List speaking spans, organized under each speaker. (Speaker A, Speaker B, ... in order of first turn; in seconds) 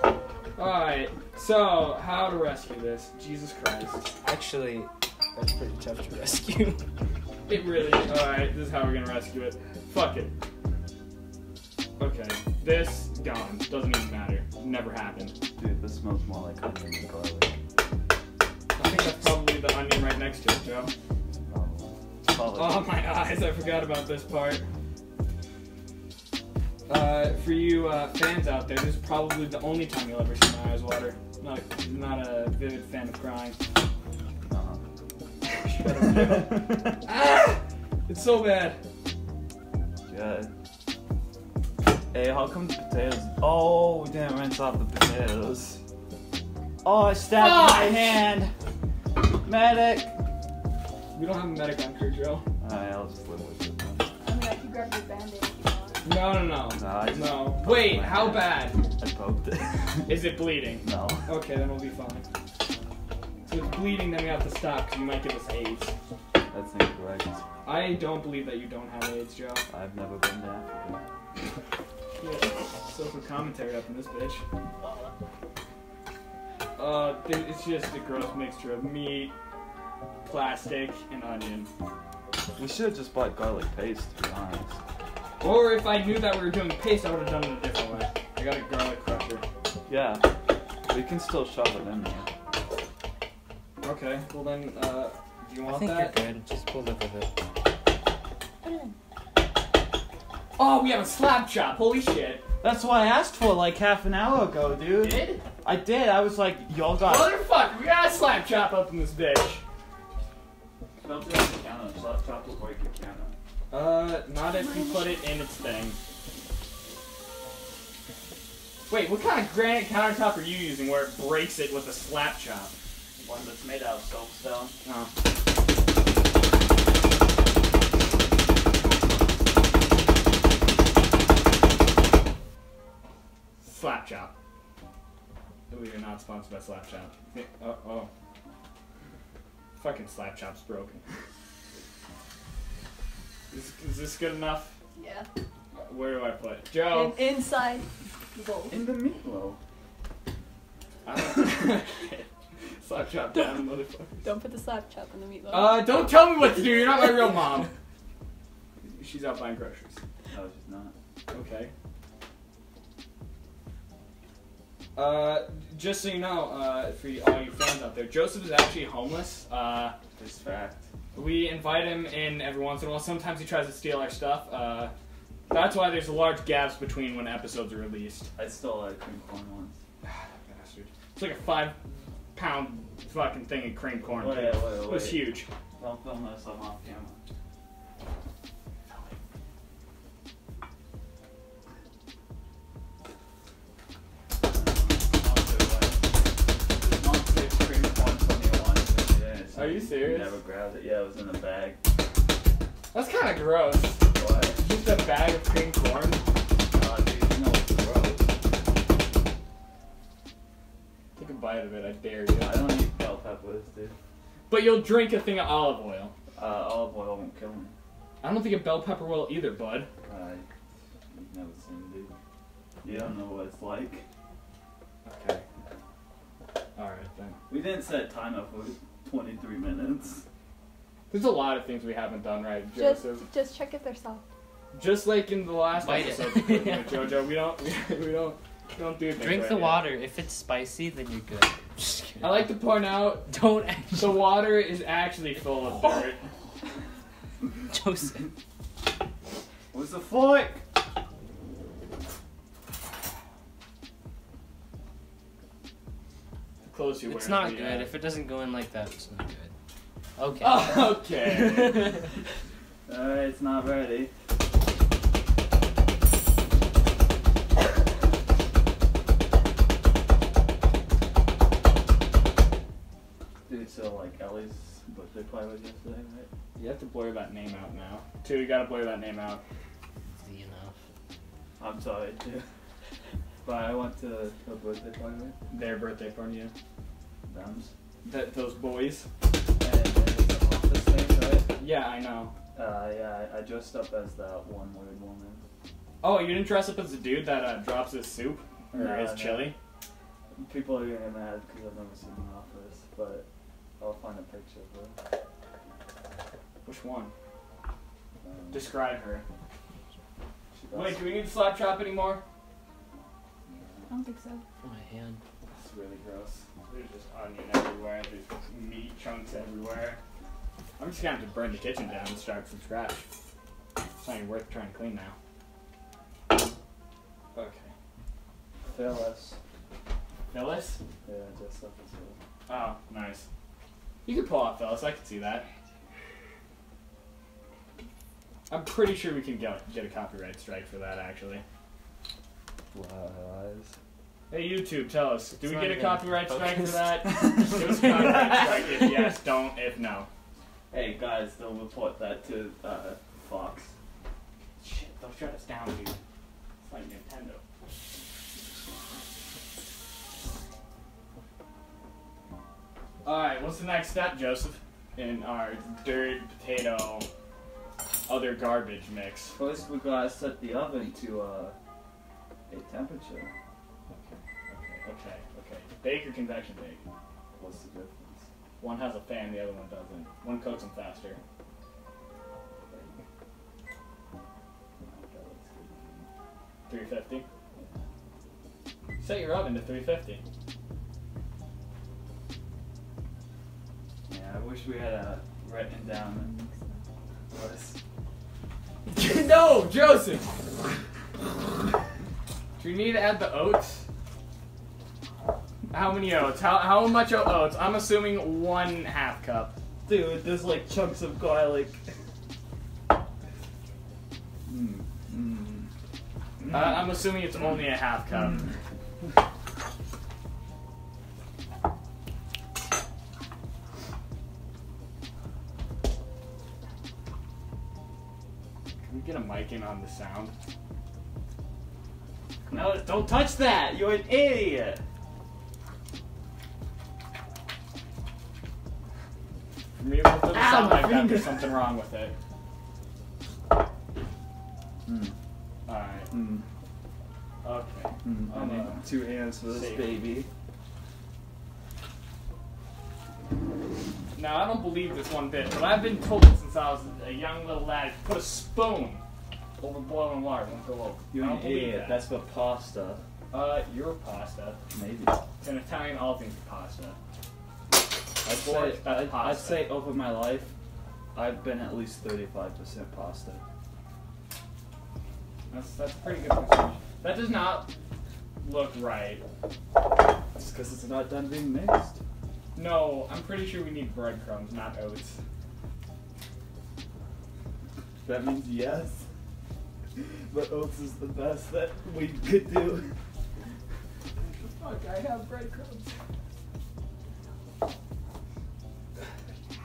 Speaker A: 0.6-4.1, 7.5-10.3, 12.0-15.3, 18.8-20.9, 22.5-24.6, 26.9-33.6, 35.4-38.8, 47.3-48.2, 51.1-52.5, 56.0-58.8, 60.1-62.2, 63.5-65.9, 67.6-69.7, 72.2-74.4, 76.8-79.3, 80.2-81.7, 85.4-89.4, 93.8-96.2, 100.6-102.5, 105.0-105.4, 107.0-109.6, 113.7-116.0, 118.9-122.7, 124.8-125.1, 133.6-134.3, 135.7-138.1, 139.8-141.0, 143.5-144.7, 145.8-147.3, 151.1-152.3, 152.8-154.2, 155.5-157.7, 158.8-160.0, 161.3-161.7, 165.0-170.0, 171.1-174.9, 175.5-178.3, 180.0-181.8, 182.3-185.5, 188.9-189.2, 199.5-200.4, 202.9-204.0, 204.6-206.2, 211.2-212.7, 214.5-216.1, 218.2-219.9, 222.9-223.1, 225.0-225.4, 226.8-227.4, 231.1-233.2, 234.7-239.9, 242.2-243.3, 243.9-246.2, 256.6-257.9, 260.4-262.0, 276.6-279.4, 285.5-286.5, 288.0-289.1, 291.5-292.3, 296.0-299.6, 306.6-307.1, 308.5-309.2, 310.7-312.2, 315.5-320.0, 320.8-323.1, 324.0-325.1, 327.4-327.7, 330.3-330.8, 332.5-333.3, 334.0-335.5, 338.5-341.4, 344.3-350.1, 354.6-356.0, 356.6-357.4, 363.0-367.1, 368.1-369.4, 373.9-376.8, 378.6-381.2, 382.7-383.0, 386.7-387.2, 389.0-390.2, 398.9-400.4, 402.6-403.8, 405.7-409.5, 416.5-418.5, 428.8-430.3, 439.8-442.1, 445.7-446.1, 447.4-449.9, 454.2-459.0, 459.6-462.1, 463.3-464.6, 465.4-467.0, 468.2-469.7, 475.5-477.7, 478.4-479.2, 482.5-485.2, 494.2-495.9
Speaker B: 4.2-6.8, 95.6-97.3, 235.8-237.1, 239.1-242.5, 243.2-244.4, 247.7-248.3, 257.1-259.5, 260.2-262.0, 280.1-280.7, 314.6-315.2, 345.4-348.4
Speaker C: 15.6-17.6, 21.5-22.9, 34.5-34.8, 35.8-37.0, 40.1-40.5, 42.1-45.8, 46.8-48.5, 49.4-50.1, 52.6-54.1, 56.7-60.3, 60.8-61.3, 66.5-67.5, 69.7-71.0, 82.6-84.8, 89.9-90.3, 90.9-92.3, 102.6-107.3, 111.0-113.3, 123.2-124.8, 148.7-149.6, 160.3-160.9, 170.2-170.8, 178.3-179.8, 184.1-187.2, 194.4-196.1, 196.7-201.8, 204.1-204.6, 206.7-208.3, 212.4-213.9, 216.3-217.7, 220.0-220.5, 221.1-222.1, 222.8-224.0, 227.5-230.2, 249.7-250.6, 262.9-264.1, 273.5-276.3, 281.6-282.5, 283.4-285.4, 287.3-287.7, 289.6-291.5, 292.5-295.4, 298.7-299.5, 300.3-303.3, 303.8-305.0, 308.2-308.7, 310.5-311.1, 313.5-313.9, 328.6-329.4, 331.0-332.2, 342.7-343.7, 347.1-348.6, 350.7-353.7, 369.4-371.6, 372.5-373.3, 377.4-378.3, 384.8-386.1, 387.5-387.8, 394.1-396.5, 397.3-397.8, 409.9-411.8, 414.5-415.7, 416.4-417.0, 432.5-434.8, 440.3-441.5, 444.9-445.1, 446.1-446.4, 448.0-450.3, 461.1-463.0, 464.7-465.2, 468.2-470.5, 471.1-473.4, 480.3-482.0, 488.0-489.1, 489.9-492.9
Speaker D: 54.2-56.1, 98.6-99.0, 114.6-115.0, 144.9-145.3, 146.8-148.7, 154.2-156.2, 232.7-234.2, 313.9-314.4